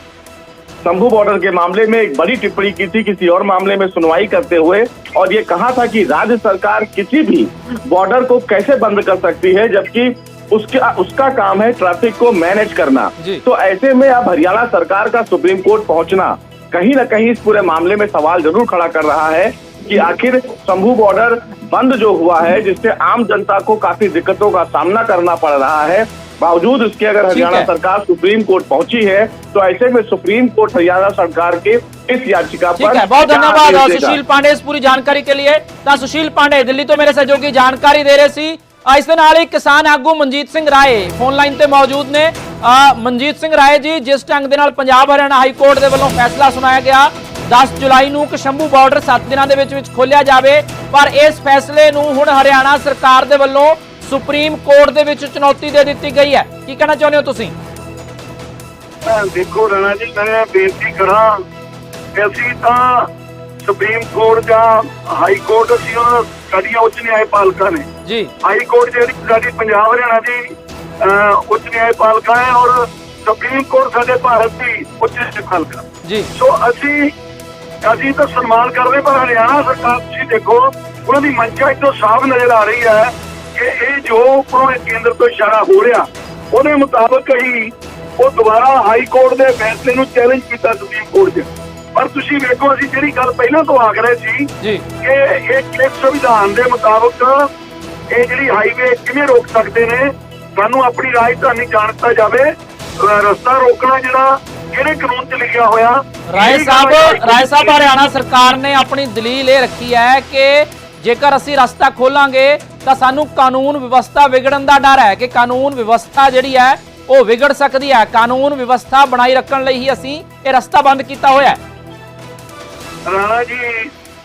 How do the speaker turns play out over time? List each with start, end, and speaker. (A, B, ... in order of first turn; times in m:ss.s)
0:00.8-0:34.2 A
0:27.3-0:27.7 B
0:32.8-0:57.6 B
0:59.0-1:01.4 C
1:02.2-1:03.1 C
1:03.6-1:07.9 C
1:08.0-1:08.3 B
1:08.4-1:17.1 C
1:16.0-1:16.3 B
1:17.8-1:34.5 C
1:35.0-1:37.5 C
1:38.1-1:47.8 C
1:46.3-2:01.6 B
2:03.1-2:03.9 C